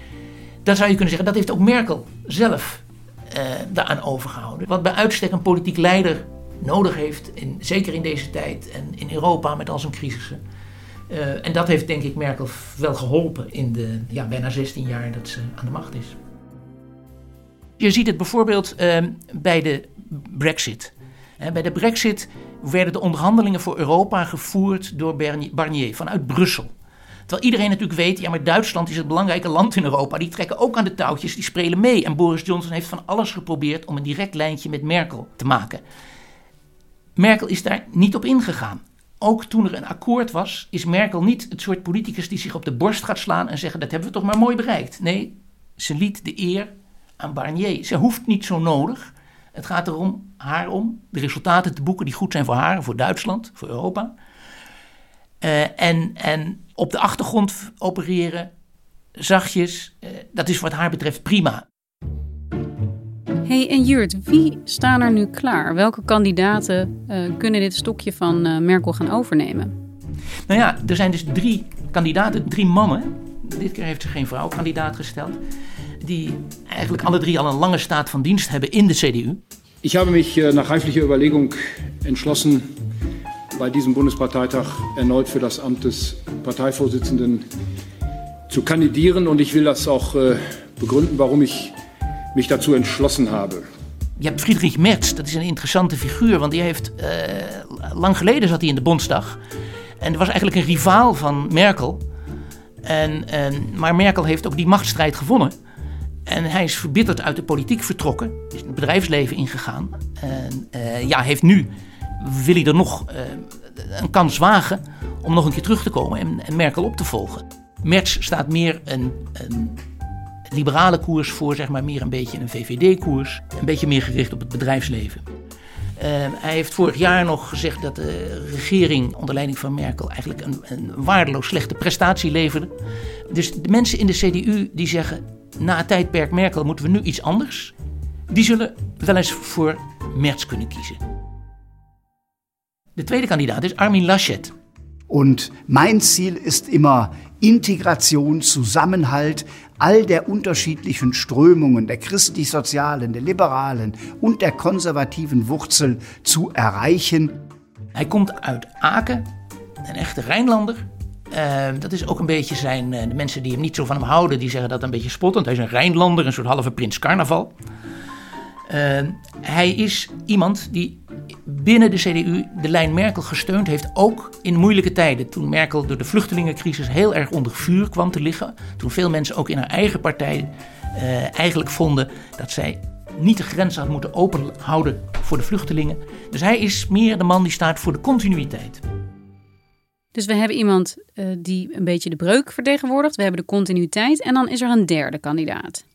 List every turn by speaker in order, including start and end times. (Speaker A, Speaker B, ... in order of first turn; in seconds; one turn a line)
Speaker A: 0.6-10.4
Speaker A: 11.1-16.1
Speaker A: 17.8-26.7
Speaker A: 27.3-35.8
Speaker A: 37.2-54.1
Speaker A: 55.4-58.5
Speaker A: 59.2-61.6
Speaker B: 63.5-69.7
Speaker A: 70.5-75.4
Speaker A: 76.0-79.4
Speaker C: 79.8-82.6
Speaker C: 83.5-87.4
Speaker C: 88.5-91.7
Speaker C: 92.3-93.7
Speaker A: 94.2-99.4
Speaker A: 100.0-102.0
Speaker A: 102.8-105.5
Speaker A: 106.3-119.8
Speaker A: 120.5-125.2
Speaker A: 126.0-132.7
Speaker A: 133.3-137.7
Speaker A: 138.3-141.0
Speaker A: 143.0-144.5
Speaker D: 145.1-157.3
Speaker A: 157.9-159.2
Speaker A: 159.8-167.5
Speaker A: 168.7-188.8
Speaker B: 190.1-195.8